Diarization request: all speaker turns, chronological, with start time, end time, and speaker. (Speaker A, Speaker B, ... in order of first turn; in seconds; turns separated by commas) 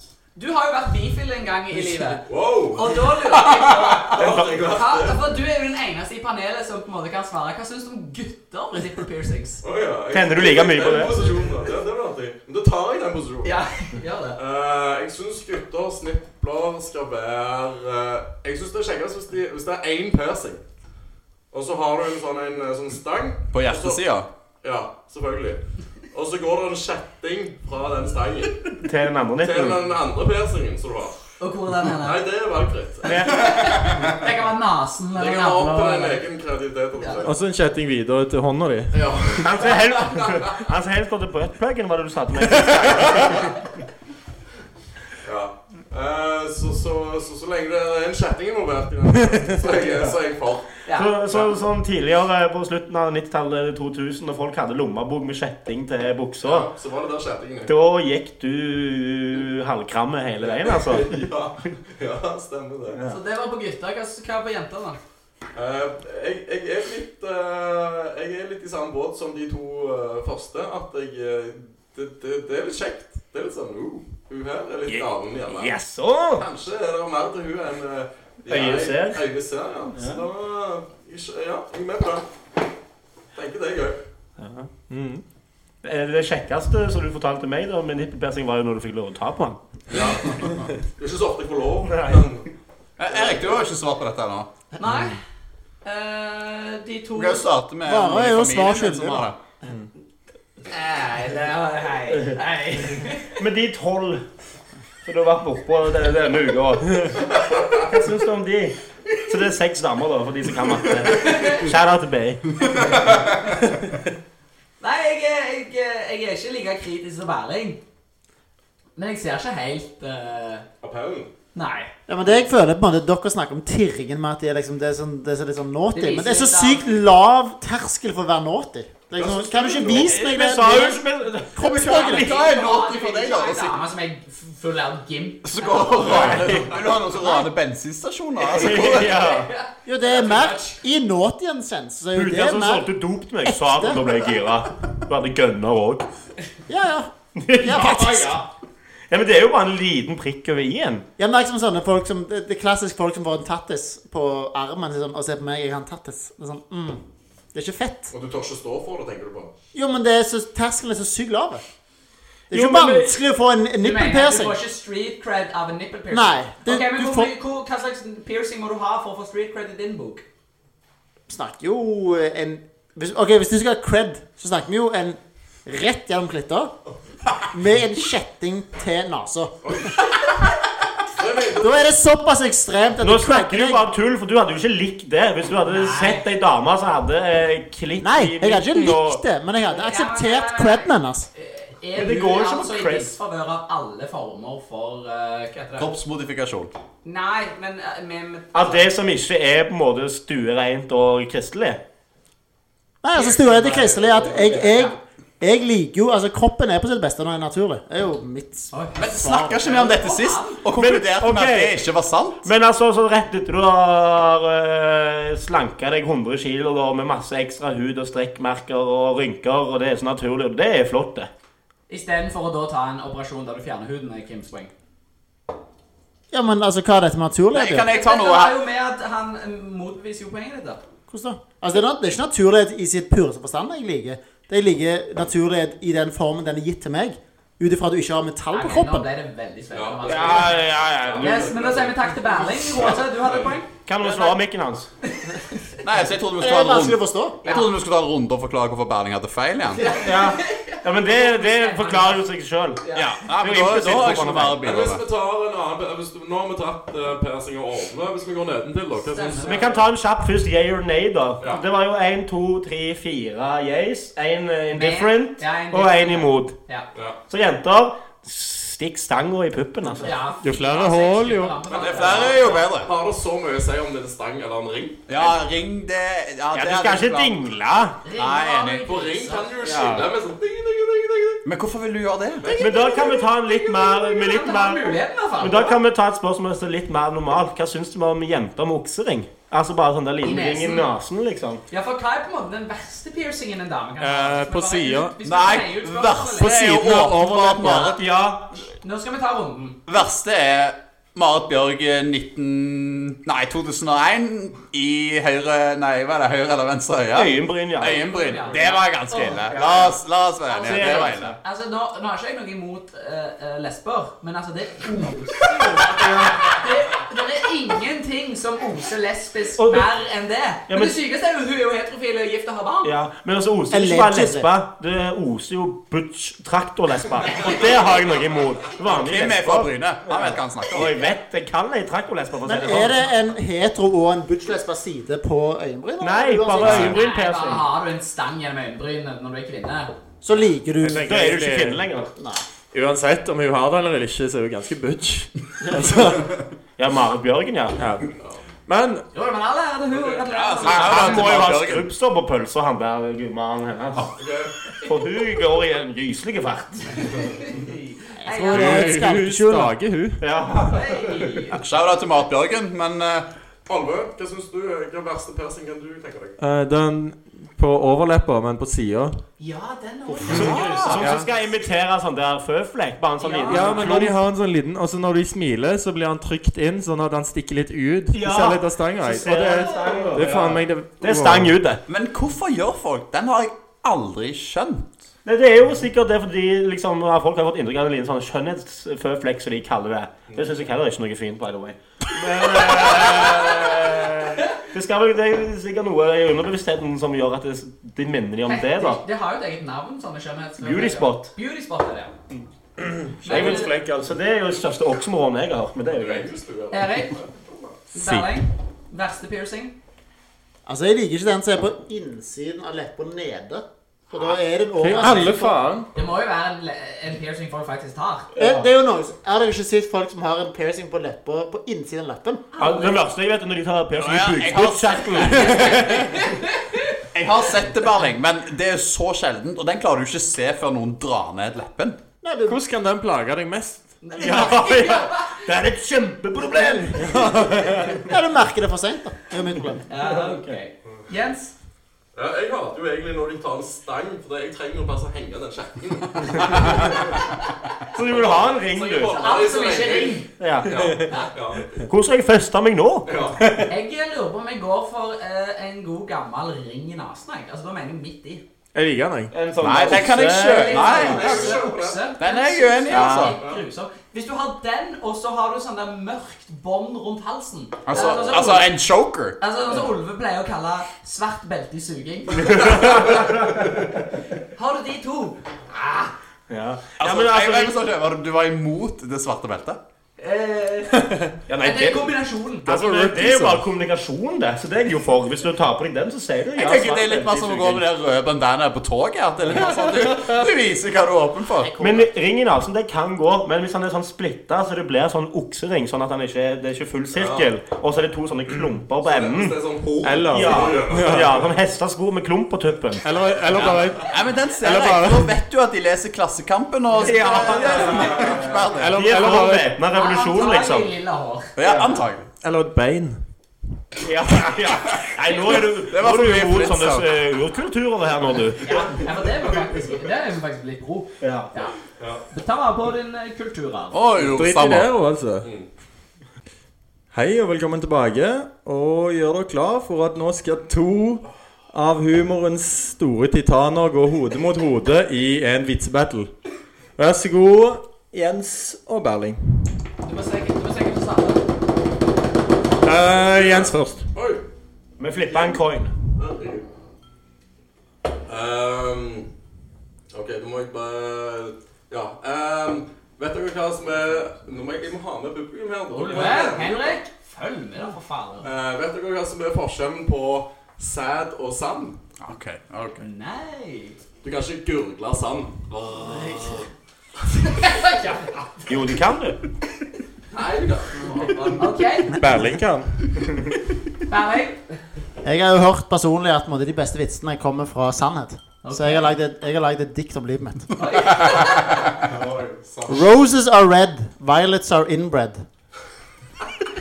Speaker A: 0.4-9.6, Speaker B: 2.2-3.0, Speaker B: 3.7-5.3, Speaker C: 4.2-4.6, Speaker B: 9.6-13.5, Speaker C: 10.1-11.2, Speaker A: 13.4-14.4, Speaker B: 14.4-20.6, Speaker B: 21.5-24.0, Speaker D: 23.5-24.3, Speaker B: 24.6-25.6, Speaker B: 26.1-28.7, Speaker C: 28.8-29.8, Speaker B: 29.4-31.2, Speaker A: 31.4-32.2, Speaker B: 31.9-33.5, Speaker C: 33.0-33.4, Speaker A: 33.1-36.2, Speaker B: 35.2-37.4, Speaker E: 37.2-39.1, Speaker B: 38.9-40.6, Speaker C: 39.4-43.5, Speaker B: 45.2-50.8, Speaker A: 50.9-51.1, Speaker C: 50.9-56.7, Speaker B: 56.4-57.7, Speaker C: 57.7-61.2, Speaker B: 60.4-63.0, Speaker C: 62.9-63.2, Speaker A: 63.1-65.0, Speaker B: 65.5-75.7, Speaker C: 74.9-76.5, Speaker B: 76.3-82.3, Speaker C: 78.5-79.2, Speaker C: 80.0-80.2, Speaker B: 83.3-84.0, Speaker C: 84.4-84.7, Speaker E: 84.9-85.2, Speaker C: 85.8-89.6, Speaker B: 89.9-92.5, Speaker C: 91.9-92.2, Speaker D: 93.0-94.5, Speaker B: 93.1-93.6, Speaker A: 94.8-95.2, Speaker A: 95.8-97.5, Speaker D: 97.2-99.4, Speaker F: 97.8-99.3, Speaker A: 100.7-103.3, Speaker C: 103.4-104.2, Speaker C: 105.0-112.8, Speaker A: 111.1-111.7, Speaker A: 114.8-117.8, Speaker A: 119.0-120.7, Speaker B: 120.8-121.3, Speaker A: 121.5-121.9, Speaker F: 122.1-131.0, Speaker A: 125.9-126.9, Speaker B: 129.2-130.1, Speaker C: 129.9-132.4, Speaker F: 131.6-132.3, Speaker A: 131.7-136.4, Speaker D: 132.1-133.8, Speaker D: 135.4-139.1, Speaker C: 136.0-136.7, Speaker F: 136.2-136.6, Speaker C: 138.5-139.5, Speaker A: 138.6-140.8, Speaker F: 139.9-142.9, Speaker C: 142.1-146.1, Speaker F: 143.4-144.0, Speaker F: 146.7-147.1, Speaker C: 147.4-148.4, Speaker F: 147.6-148.4, Speaker A: 147.7-148.4, Speaker C: 149.1-151.1, Speaker F: 151.2-157.0, Speaker F: 157.5-158.1, Speaker B: 158.1-159.5, Speaker F: 159.7-161.6, Speaker F: 162.5-164.6, Speaker C: 162.5-163.2, Speaker A: 163.8-170.2, Speaker F: 166.1-167.3, Speaker F: 171.3-176.7, Speaker F: 177.5-179.8, Speaker B: 179.7-179.9, Speaker B: 181.2-181.8, Speaker F: 181.6-183.8, Speaker C: 183.0-189.2, Speaker A: 185.7-186.3, Speaker F: 188.0-191.3, Speaker A: 189.7-195.9, Speaker C: 191.9-193.2, Speaker D: 195.8-196.7, Speaker A: 197.0-198.9, Speaker C: 198.5-201.8, Speaker F: 203.0-209.6, Speaker A: 203.2-205.0, Speaker A: 208.7-210.6, Speaker D: 209.0-212.5, Speaker C: 210.7-211.8, Speaker C: 212.4-221.3, Speaker A: 221.9-224.7, Speaker F: 226.3-227.9, Speaker D: 227.5-228.6, Speaker A: 227.9-230.8, Speaker F: 231.1-239.1, Speaker A: 238.5-240.7, Speaker B: 239.7-243.6, Speaker C: 240.0-241.7, Speaker A: 241.2-244.4, Speaker C: 243.9-244.9, Speaker D: 245.8-250.0, Speaker F: 246.4-247.4, Speaker A: 247.4-247.7, Speaker A: 249.8-252.2, Speaker C: 250.0-254.6, Speaker A: 252.8-253.1, Speaker D: 252.9-255.0, Speaker B: 254.6-259.8, Speaker A: 259.1-259.8, Speaker C: 259.4-266.6, Speaker A: 264.7-266.9, Speaker C: 267.3-270.2, Speaker A: 270.0-272.6, Speaker E: 270.4-271.6, Speaker B: 271.7-275.0, Speaker D: 271.7-272.9, Speaker D: 275.1-277.4, Speaker C: 276.5-278.0, Speaker A: 278.1-279.6, Speaker D: 278.2-278.9, Speaker B: 278.9-281.4, Speaker E: 279.6-280.1, Speaker D: 281.4-282.5, Speaker B: 282.4-283.1, Speaker A: 282.5-285.8, Speaker C: 282.6-291.6, Speaker A: 290.2-290.9, Speaker A: 291.7-296.6, Speaker E: 294.0-295.2, Speaker D: 295.2-298.0, Speaker E: 296.4-297.9, Speaker C: 296.7-297.0, Speaker C: 297.6-298.5, Speaker A: 298.8-299.8, Speaker D: 299.9-311.4, Speaker C: 307.1-308.6, Speaker A: 308.0-309.9, Speaker C: 309.1-309.9, Speaker A: 310.4-322.9, Speaker C: 310.6-311.4, Speaker C: 315.8-316.4, Speaker C: 319.6-319.9, Speaker C: 320.7-321.0, Speaker C: 322.8-333.1, Speaker F: 323.7-324.5, Speaker D: 328.9-330.9, Speaker F: 332.4-337.0, Speaker C: 336.0-337.7, Speaker A: 336.5-339.9, Speaker F: 340.2-341.3, Speaker E: 340.8-341.8, Speaker C: 341.0-342.1, Speaker F: 342.2-342.4, Speaker E: 342.7-346.4, Speaker C: 346.8-347.8, Speaker E: 347.8-348.1, Speaker B: 348.1-348.4, Speaker E: 348.7-349.1, Speaker A: 349.1-351.5, Speaker B: 349.9-350.3, Speaker D: 350.3-351.9, Speaker C: 350.6-354.1, Speaker B: 354.1-354.5, Speaker C: 354.9-357.1, Speaker A: 357.1-358.9, Speaker F: 358.2-359.8, Speaker E: 358.5-360.2, Speaker C: 360.2-360.9, Speaker A: 360.7-361.6, Speaker D: 361.5-363.3, Speaker B: 363.7-366.4, Speaker E: 366.4-369.2, Speaker A: 369.4-371.0, Speaker E: 370.2-371.3, Speaker C: 370.3-374.2, Speaker D: 370.3-371.1, Speaker A: 373.2-374.0, Speaker E: 373.5-381.6, Speaker C: 378.1-381.8, Speaker D: 381.9-384.9, Speaker C: 385.2-399.0, Speaker A: 398.5-402.1, Speaker C: 400.6-401.3, Speaker C: 402.8-406.3, Speaker A: 403.2-403.7, Speaker E: 403.3-403.8, Speaker B: 405.9-407.7, Speaker A: 406.7-407.2, Speaker A: 407.9-409.8, Speaker E: 408.0-408.3, Speaker F: 410.7-415.7, Speaker E: 414.8-415.9, Speaker A: 415.9-418.3, Speaker C: 418.4-418.7, Speaker F: 418.4-422.4, Speaker A: 422.5-423.0, Speaker C: 422.6-426.2, Speaker D: 423.9-425.9, Speaker A: 425.1-427.0, Speaker D: 427.1-432.0, Speaker F: 432.2-432.6, Speaker E: 432.5-433.9, Speaker A: 434.0-435.4, Speaker C: 434.2-438.1, Speaker E: 437.0-437.8, Speaker F: 438.0-439.8, Speaker A: 439.9-441.5, Speaker C: 440.0-440.6, Speaker B: 442.1-447.2, Speaker C: 447.9-449.2, Speaker B: 448.0-451.9, Speaker A: 449.1-450.3, Speaker C: 450.4-451.0, Speaker A: 451.0-451.3, Speaker C: 451.9-453.1, Speaker B: 453.1-453.5, Speaker A: 453.7-458.4, Speaker E: 458.8-459.3, Speaker C: 459.3-461.3, Speaker D: 459.6-461.6, Speaker A: 460.3-468.7, Speaker B: 461.0-462.1, Speaker D: 462.2-463.4, Speaker C: 462.9-463.4, Speaker D: 467.9-469.4, Speaker A: 469.4-473.6, Speaker C: 472.5-473.6, Speaker A: 474.6-476.1, Speaker C: 476.5-477.8, Speaker D: 477.0-479.8, Speaker A: 480.2-481.1, Speaker E: 481.0-481.3, Speaker C: 481.5-482.1, Speaker A: 481.6-482.7, Speaker C: 482.7-487.8, Speaker E: 482.7-483.6, Speaker D: 486.6-492.1, Speaker C: 491.8-503.8, Speaker B: 497.1-497.5, Speaker B: 499.0-501.5, Speaker E: 500.0-501.4, Speaker E: 503.0-505.4, Speaker D: 503.5-509.0, Speaker A: 507.0-508.2, Speaker C: 507.0-510.9, Speaker E: 508.7-509.7, Speaker A: 509.9-511.5, Speaker D: 511.6-512.3, Speaker E: 512.4-513.2, Speaker C: 514.0-519.0, Speaker D: 515.5-517.1, Speaker A: 518.6-521.8, Speaker C: 521.2-521.5, Speaker A: 522.3-524.0, Speaker D: 523.9-524.9, Speaker E: 524.3-525.5, Speaker B: 525.4-525.7, Speaker E: 527.1-536.3, Speaker E: 537.0-539.7, Speaker A: 540.0-541.5, Speaker E: 542.8-544.1, Speaker B: 543.1-544.4, Speaker C: 545.0-545.9, Speaker B: 545.2-546.6, Speaker B: 548.3-549.3, Speaker B: 550.1-557.0, Speaker A: 555.9-558.5, Speaker B: 558.4-562.0, Speaker D: 562.2-563.0, Speaker A: 563.0-564.0, Speaker B: 564.2-566.7, Speaker F: 566.1-566.6, Speaker A: 567.4-568.7, Speaker C: 568.7-569.4, Speaker B: 570.3-571.7, Speaker A: 571.6-572.2, Speaker E: 572.1-573.3, Speaker A: 574.1-574.6, Speaker F: 575.2-580.7, Speaker A: 578.6-579.1, Speaker A: 580.8-581.7, Speaker B: 582.0-583.1, Speaker F: 582.9-585.5